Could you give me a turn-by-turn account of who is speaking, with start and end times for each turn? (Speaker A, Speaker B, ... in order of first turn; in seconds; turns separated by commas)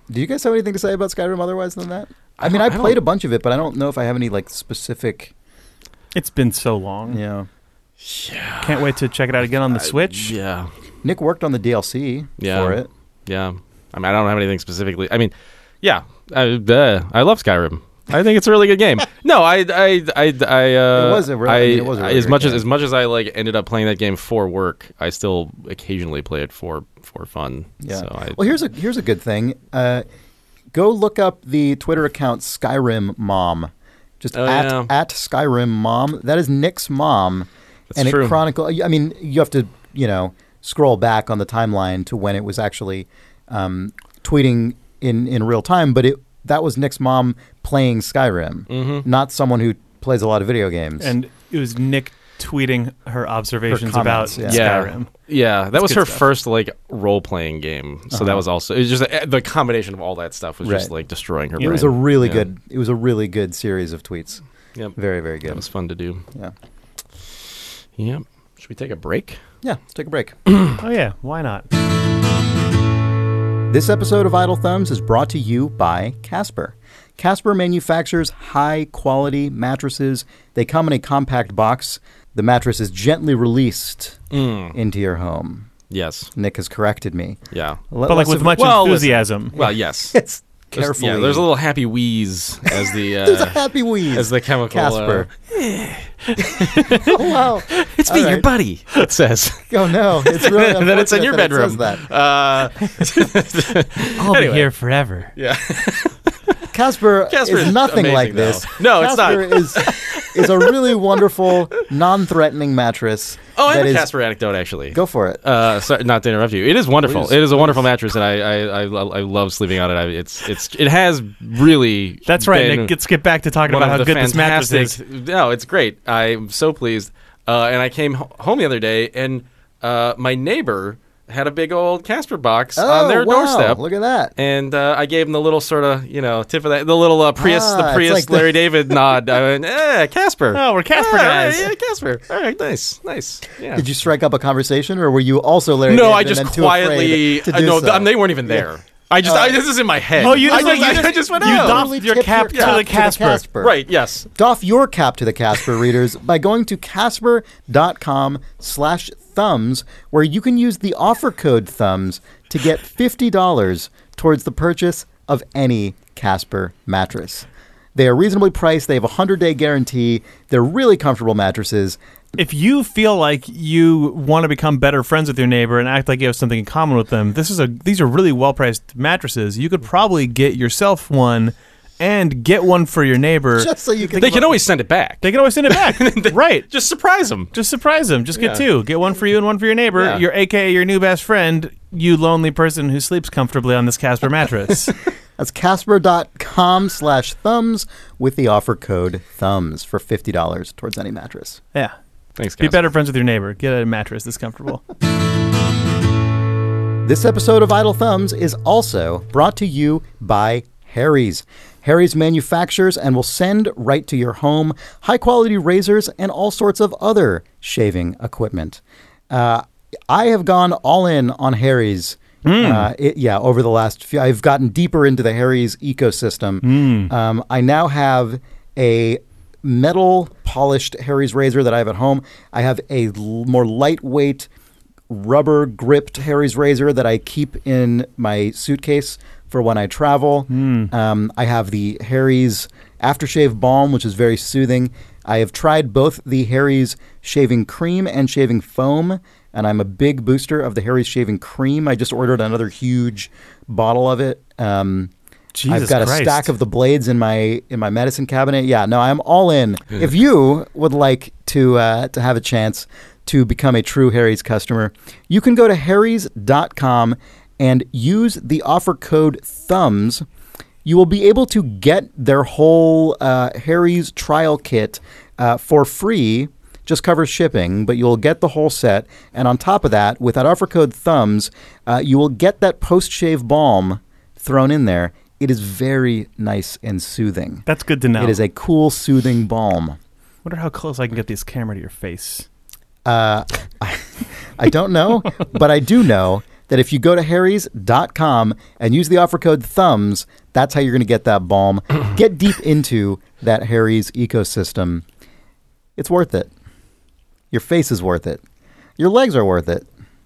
Speaker A: 0.1-5.3, Speaker B: 2.4-3.0, Speaker C: 6.2-7.2, Speaker A: 7.1-7.5, Speaker B: 8.0-8.9, Speaker C: 8.6-10.3, Speaker B: 9.7-10.7, Speaker A: 11.0-12.9, Speaker B: 12.4-28.4, Speaker A: 20.9-22.6, Speaker A: 27.8-30.1, Speaker A: 30.7-51.1, Speaker B: 34.3-34.9, Speaker B: 37.9-38.4, Speaker B: 48.7-49.0, Speaker C: 51.0-55.1, Speaker A: 53.7-54.8, Speaker B: 54.4-62.5, Speaker C: 55.7-56.2, Speaker A: 58.1-58.4, Speaker A: 60.6-60.9, Speaker A: 61.6-64.4, Speaker C: 61.6-61.9, Speaker B: 64.8-66.2, Speaker A: 65.0-65.6, Speaker B: 68.0-69.4, Speaker A: 69.6-70.4, Speaker B: 70.5-70.8, Speaker C: 70.8-71.7, Speaker A: 73.7-84.2, Speaker B: 84.3-84.8, Speaker A: 84.7-85.7, Speaker B: 85.9-86.3, Speaker A: 86.3-87.4, Speaker B: 87.5-87.8, Speaker A: 87.9-88.8, Speaker C: 88.1-89.5, Speaker B: 88.5-90.2, Speaker A: 89.5-91.5, Speaker B: 90.7-95.3, Speaker A: 92.7-95.3, Speaker C: 95.7-97.1, Speaker B: 96.4-97.2, Speaker A: 97.0-98.5, Speaker B: 97.7-104.7, Speaker A: 99.7-102.0, Speaker C: 104.2-105.3, Speaker B: 105.4-106.2, Speaker A: 106.7-114.1, Speaker B: 107.3-110.8, Speaker B: 113.6-122.9, Speaker A: 114.9-115.4, Speaker A: 117.0-117.8, Speaker C: 122.3-125.0, Speaker B: 123.7-133.8, Speaker A: 132.8-134.3, Speaker B: 134.4-143.8, Speaker A: 137.4-138.6, Speaker C: 140.5-141.7, Speaker A: 143.7-148.7, Speaker B: 145.9-151.9, Speaker A: 149.2-153.8, Speaker C: 150.2-153.4, Speaker B: 152.5-152.8, Speaker B: 153.6-154.3, Speaker A: 154.3-172.0, Speaker C: 172.4-183.7, Speaker A: 183.6-184.6, Speaker B: 184.2-187.5, Speaker C: 185.2-186.7, Speaker C: 187.5-194.9, Speaker B: 188.3-188.6, Speaker B: 190.0-190.2, Speaker A: 195.4-201.6, Speaker B: 202.4-202.9, Speaker C: 202.6-204.8, Speaker A: 207.0-234.5, Speaker C: 222.4-222.9, Speaker C: 226.6-227.1, Speaker A: 235.1-255.1, Speaker C: 240.5-240.9, Speaker C: 255.5-256.5, Speaker A: 255.7-270.2, Speaker A: 270.9-287.6, Speaker C: 287.7-288.4, Speaker A: 288.2-290.0, Speaker C: 290.4-292.5, Speaker A: 293.1-305.0, Speaker A: 306.0-306.5, Speaker A: 307.5-308.4, Speaker A: 309.0-309.9